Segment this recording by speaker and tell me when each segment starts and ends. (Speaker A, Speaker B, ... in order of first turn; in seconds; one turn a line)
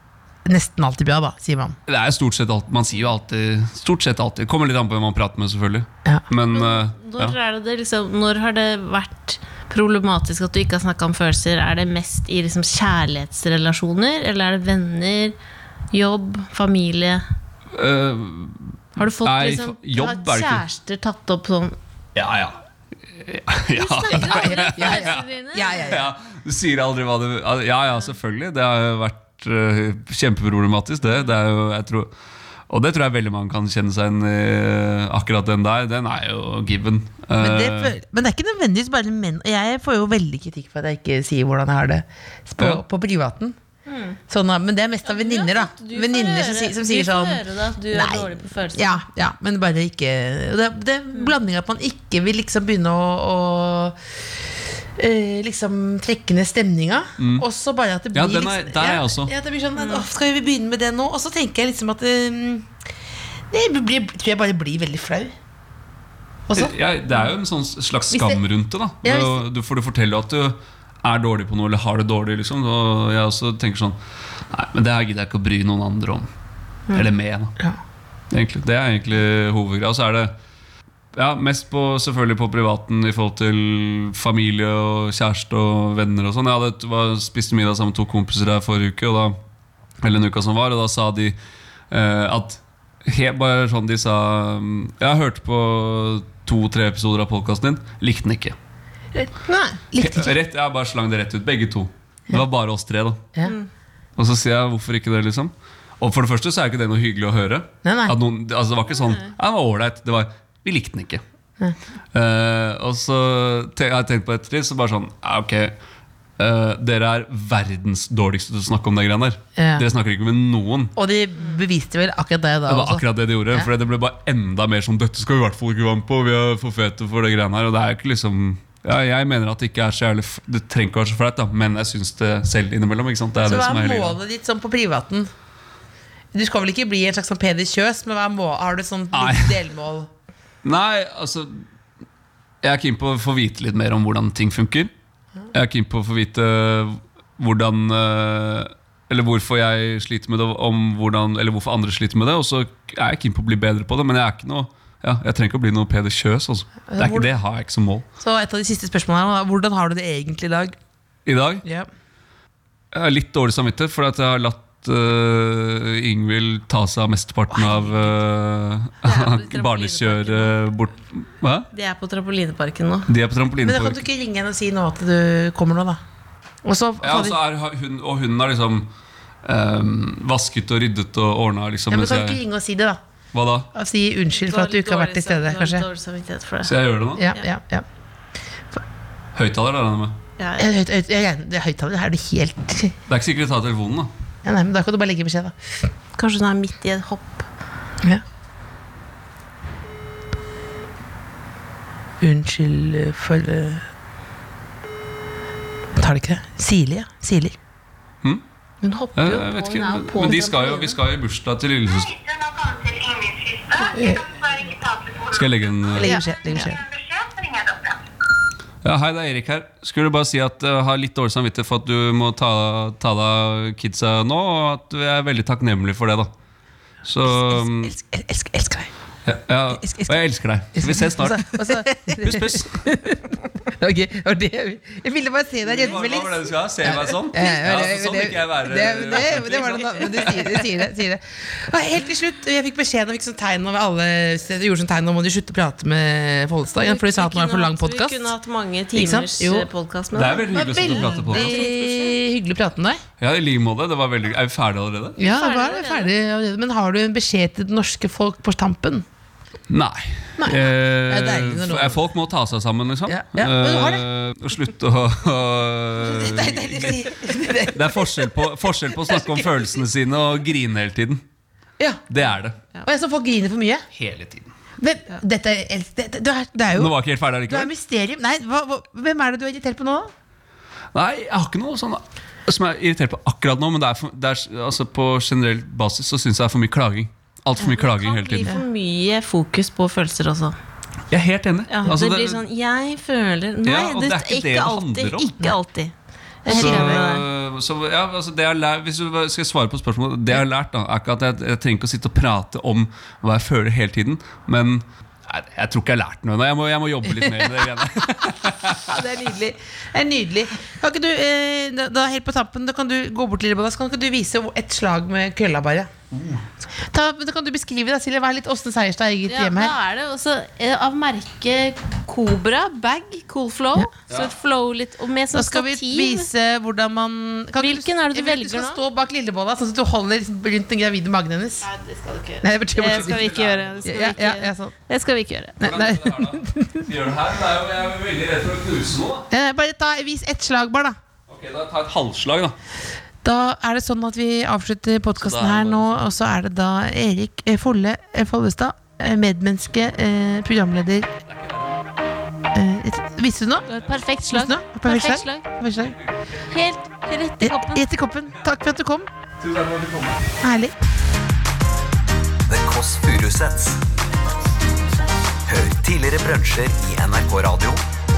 Speaker A: 0.5-1.8
Speaker B: 1.9-7.4
Speaker C: 6.5-15.3
Speaker C: 15.9-17.2
Speaker B: 17.7-20.6
Speaker C: 19.0-21.8
Speaker B: 22.1-22.6
Speaker B: 23.1-25.2
Speaker C: 23.7-26.0
Speaker A: 24.1-26.1
Speaker B: 25.9-32.1
Speaker B: 32.7-38.0
Speaker A: 37.4-43.6
Speaker C: 43.9-44.2
Speaker A: 44.3-54.0
Speaker C: 45.1-49.0
Speaker A: 55.0-62.7
Speaker B: 57.2-57.5
Speaker B: 58.1-59.3
Speaker C: 59.8-60.0
Speaker A: 63.5-65.3
Speaker A: 66.5-66.7
Speaker B: 66.5-74.0
Speaker A: 68.1-68.4
Speaker A: 69.0-69.5
Speaker B: 74.5-76.3
Speaker B: 76.9-77.6
Speaker B: 78.3-80.3
Speaker B: 81.1-89.4
Speaker B: 90.0-91.4
Speaker B: 91.9-98.6
Speaker C: 99.5-99.8
Speaker A: 99.9-100.3
Speaker B: 100.0-103.2
Speaker B: 104.2-111.2
Speaker A: 107.8-108.2
Speaker B: 112.1-115.8
Speaker B: 116.4-120.9
Speaker A: 119.6-119.9
Speaker A: 121.0-123.7
Speaker B: 122.7-134.2
Speaker A: 133.4-135.3
Speaker A: 136.3-140.1
Speaker B: 139.1-139.6
Speaker B: 140.6-141.6
Speaker B: 142.6-144.9
Speaker B: 145.5-158.1
Speaker A: 156.9-157.3
Speaker A: 158.2-160.8
Speaker B: 161.3-161.7
Speaker A: 161.6-161.9
Speaker B: 162.9-171.7
Speaker A: 167.5-168.1
Speaker C: 169.0-170.6
Speaker C: 171.7-173.1
Speaker B: 173.1-174.0
Speaker A: 173.6-176.0
Speaker A: 176.6-177.4
Speaker B: 177.0-178.9
Speaker B: 179.4-182.4
Speaker A: 181.9-183.0
Speaker B: 183.3-183.7
Speaker A: 183.7-185.9
Speaker C: 184.3-186.8
Speaker B: 186.6-187.2
Speaker A: 187.2-187.8
Speaker B: 189.3-190.2
Speaker C: 190.4-190.7
Speaker A: 190.6-193.0
Speaker B: 193.1-194.1
Speaker A: 194.4-195.6
Speaker C: 196.2-197.5
Speaker A: 202.2-203.8
Speaker A: 205.9-207.6
Speaker C: 208.8-211.0
Speaker B: 209.2-212.1
Speaker D: 211.8-218.1
Speaker A: 213.9-214.3
Speaker B: 215.3-216.1
Speaker A: 216.0-216.8
Speaker C: 216.0-216.7
Speaker B: 218.8-226.3
Speaker B: 227.0-227.9
Speaker A: 227.2-228.9
Speaker B: 229.3-232.8
Speaker A: 230.8-248.3
Speaker B: 235.7-240.6
Speaker C: 246.8-252.2
Speaker A: 248.9-249.7
Speaker B: 250.1-251.6
Speaker A: 250.5-253.0
Speaker B: 253.2-255.2
Speaker A: 255.2-259.1
Speaker C: 255.2-256.1
Speaker B: 259.7-271.2
Speaker A: 260.4-262.0
Speaker A: 263.1-264.0
Speaker A: 266.0-269.7
Speaker A: 271.8-272.0
Speaker B: 272.1-272.6
Speaker A: 272.8-273.9
Speaker B: 273.9-274.5
Speaker A: 274.8-276.9
Speaker B: 276.7-277.7
Speaker A: 277.5-280.1
Speaker B: 280.9-288.5
Speaker C: 287.6-290.6
Speaker B: 291.1-292.4
Speaker C: 291.7-295.9
Speaker B: 293.6-295.4
Speaker C: 296.4-297.2
Speaker A: 296.4-297.1
Speaker B: 296.5-308.9
Speaker A: 308.2-315.9
Speaker B: 316.1-316.4
Speaker A: 316.8-319.8
Speaker C: 319.3-326.3
Speaker A: 325.3-331.7
Speaker C: 327.6-328.8
Speaker C: 331.6-335.6
Speaker A: 332.4-334.7
Speaker B: 332.8-334.1
Speaker A: 335.6-336.9
Speaker B: 335.6-339.3
Speaker A: 339.3-341.0
Speaker B: 341.3-342.6
Speaker A: 343.2-351.1
Speaker B: 345.2-346.0
Speaker B: 351.3-351.8
Speaker A: 352.5-353.7
Speaker C: 353.7-355.5
Speaker A: 354.3-356.0
Speaker B: 355.8-356.4
Speaker C: 356.5-357.9
Speaker A: 357.4-359.1
Speaker B: 359.4-360.3
Speaker A: 360.4-360.7
Speaker E: 362.5-363.9
Speaker E: 365.5-367.8